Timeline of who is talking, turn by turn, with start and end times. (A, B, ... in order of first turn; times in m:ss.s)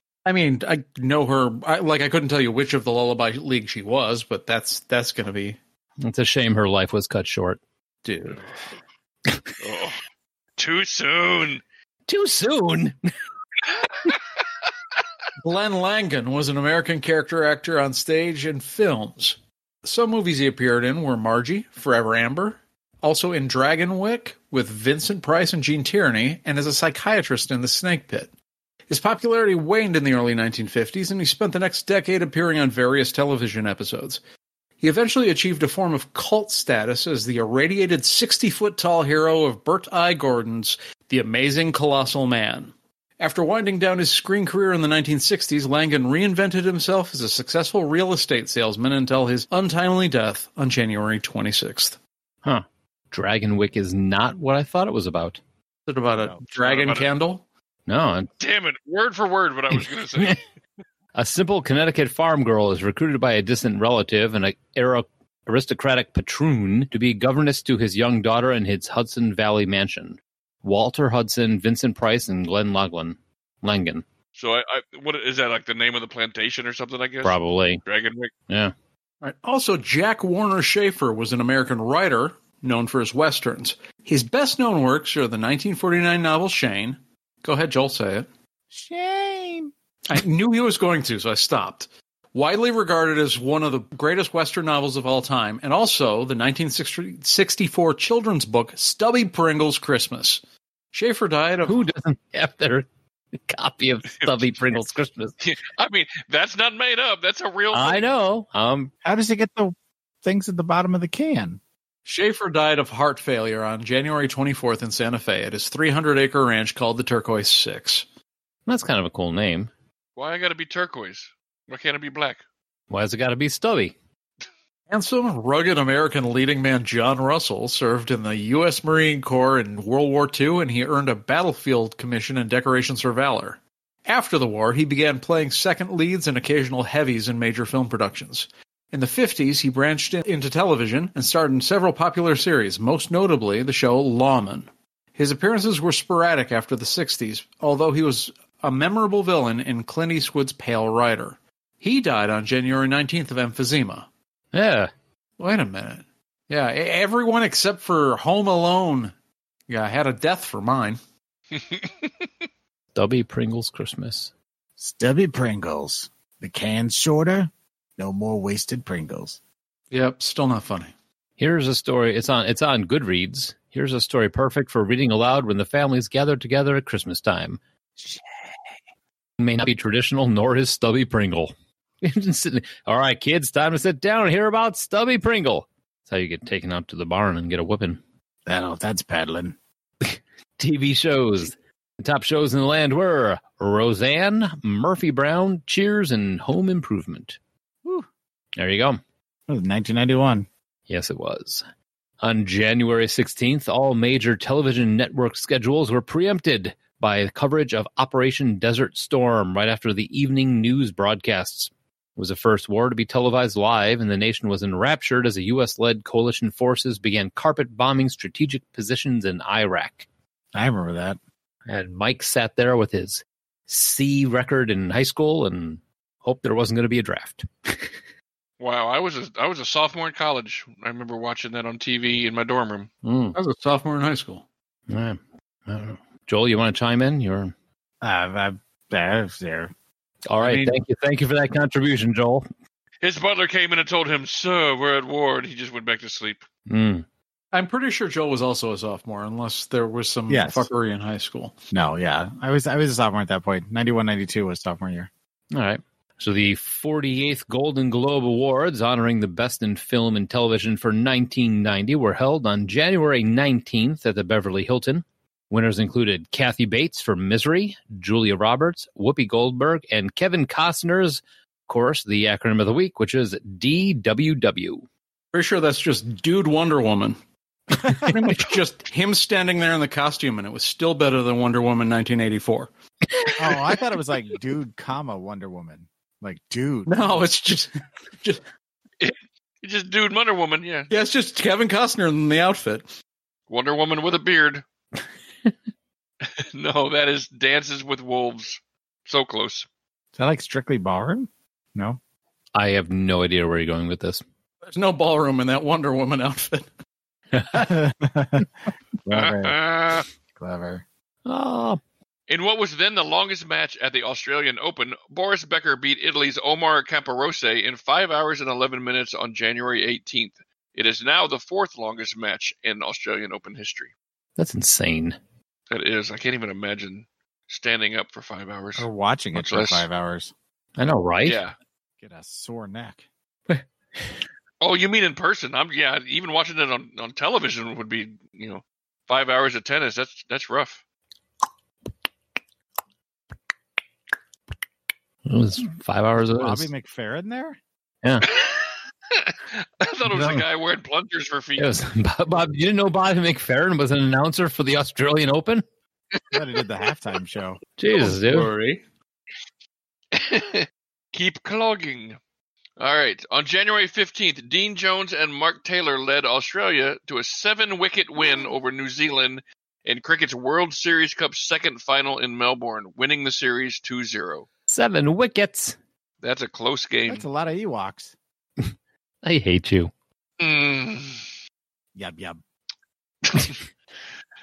0:00.2-0:05.6 A
0:06.0-0:07.6 B
0:08.0-0:08.5 A
0:09.6-0:10.0 C
0:10.6-0:11.6 C
0:12.1-0:13.0 B
0:13.8-0:14.2 C
0:15.4-0:28.3 A
0:28.9-0:34.2 A
0:34.8-0:52.0 A
0:52.4-0:55.4 B
0:55.9-0:57.4 A
0:56.5-0:57.1 C
0:57.9-0:58.3 B
0:58.4-1:00.4 C
0:59.8-1:00.3 B
1:01.1-1:14.0 B
1:14.4-1:18.3 C
1:17.2-1:17.8 B
1:19.2-1:28.3 A
1:28.7-1:29.7 D
1:30.1-1:40.4 A
1:40.9-1:41.8 A
1:41.6-1:42.9 B
1:43.4-1:45.4 B
1:45.4-1:48.1 C
1:47.7-1:48.9 B
1:49.0-1:51.6 D
1:52.0-1:58.0 A
1:58.6-1:59.7 B
2:00.2-2:02.4 C
2:02.9-2:03.9 B
2:04.9-2:34.1 A
2:34.5-2:34.9 B
2:35.4-2:39.1 A
2:39.7-2:41.0 A
2:42.9-2:44.3 B
2:44.8-2:49.4 D
2:49.9-2:50.9 A
2:51.4-2:57.6 B
2:59.4-3:08.0 B
3:08.4-3:09.6 D
3:10.0-3:17.4 B
3:18.6-3:19.0 B
3:19.5-3:20.5 D
3:20.9-3:21.6 B
3:22.2-3:40.1 B
3:40.5-3:41.2 D
3:41.7-3:47.9 B
3:48.6-3:52.9 C
3:53.0-3:53.4 B
3:53.3-3:54.4 A
3:54.9-3:57.5 B
3:58.0-3:59.7 D
4:00.3-4:02.5 B
4:00.4-4:00.8 A
4:03.0-4:06.4 C
4:06.7-4:07.0 B
4:07.5-4:11.6 A
4:10.3-4:10.7 D
4:11.7-4:15.1 D
4:15.5-4:34.8 B
4:35.3-4:37.2 A
4:37.8-4:42.7 A
4:43.4-4:47.3 D
4:46.9-4:48.4 A
4:49.0-4:50.9 C
4:50.9-4:52.9 A
4:53.5-4:54.6 C
4:56.4-4:59.7 C
5:00.1-5:02.0 D
5:02.5-5:04.2 B
5:04.6-5:06.6 A
5:07.3-5:07.6 B
5:07.5-5:08.5 D
5:09.0-5:09.6 D
5:09.1-5:10.0 C
5:10.3-5:10.8 D
5:11.2-5:11.8 B
5:12.3-5:23.9 C
5:24.4-5:25.2 B
5:25.7-5:29.9 C
5:28.8-5:30.3 D
5:30.8-5:31.4 B
5:31.2-5:31.5 C
5:32.0-5:33.0 D
5:34.6-5:40.8 C
5:45.2-5:46.7 B
5:46.4-5:47.6 D
5:48.3-5:51.7 C
5:50.1-5:50.4 B
5:51.6-5:55.6 B
5:56.3-5:57.6 D
5:57.8-5:58.5 B
5:57.9-5:58.8 A
6:00.1-6:02.2 C
6:02.8-6:14.5 C
6:14.7-6:15.8 B
6:16.2-6:17.2 C
6:17.1-6:18.1 D
6:18.6-6:19.9 B
6:20.4-6:21.2 C
6:21.9-6:22.4 D